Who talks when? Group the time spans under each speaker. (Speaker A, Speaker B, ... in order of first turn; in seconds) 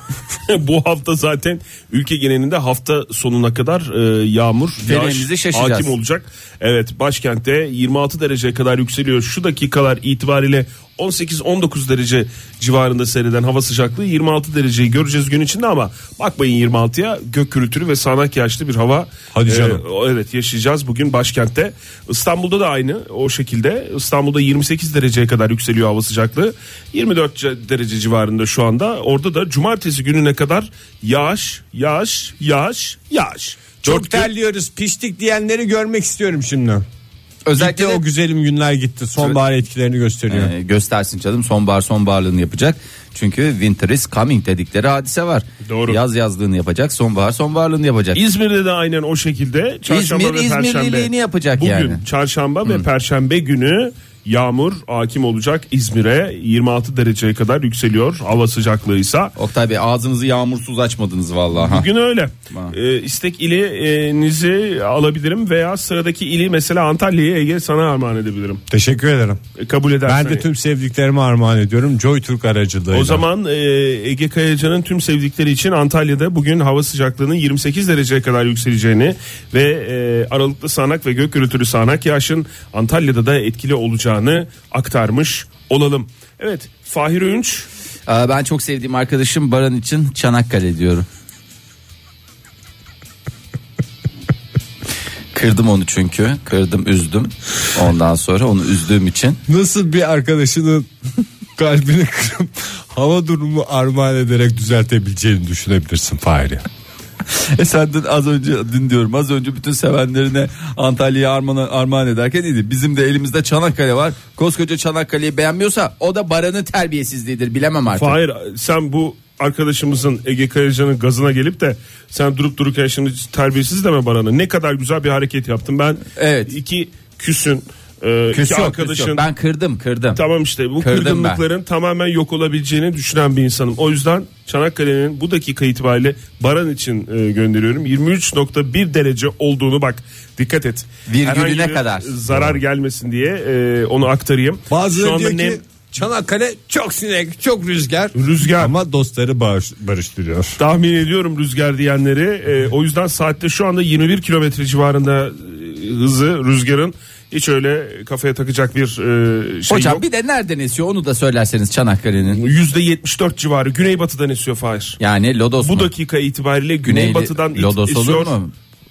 Speaker A: 0.4-34.3, 45.7-46.0, 48.1-59.3, 61.5-68.6, 69.6-70.4, 72.9-87.7, 117.9-129.2, 130.2-145.6, 148.2-148.7, 150.6-160.0, 162.3-165.0, 165.6-168.3
Speaker B: 4.8-5.9, 37.5-38.0, 40.3-48.2, 49.9-52.0, 59.4-61.9, 88.1-91.1, 95.3-99.4, 107.3-118.2, 126.1-126.5, 128.3-130.2, 130.8-131.4, 141.1-142.1, 159.7-162.4, 165.0-165.9, 166.8-168.5
Speaker C: 19.3-19.8, 33.8-36.8, 37.6-40.5, 68.7-69.4, 70.0-73.2, 99.5-100.9, 101.6-106.7, 142.3-142.6, 144.7-150.6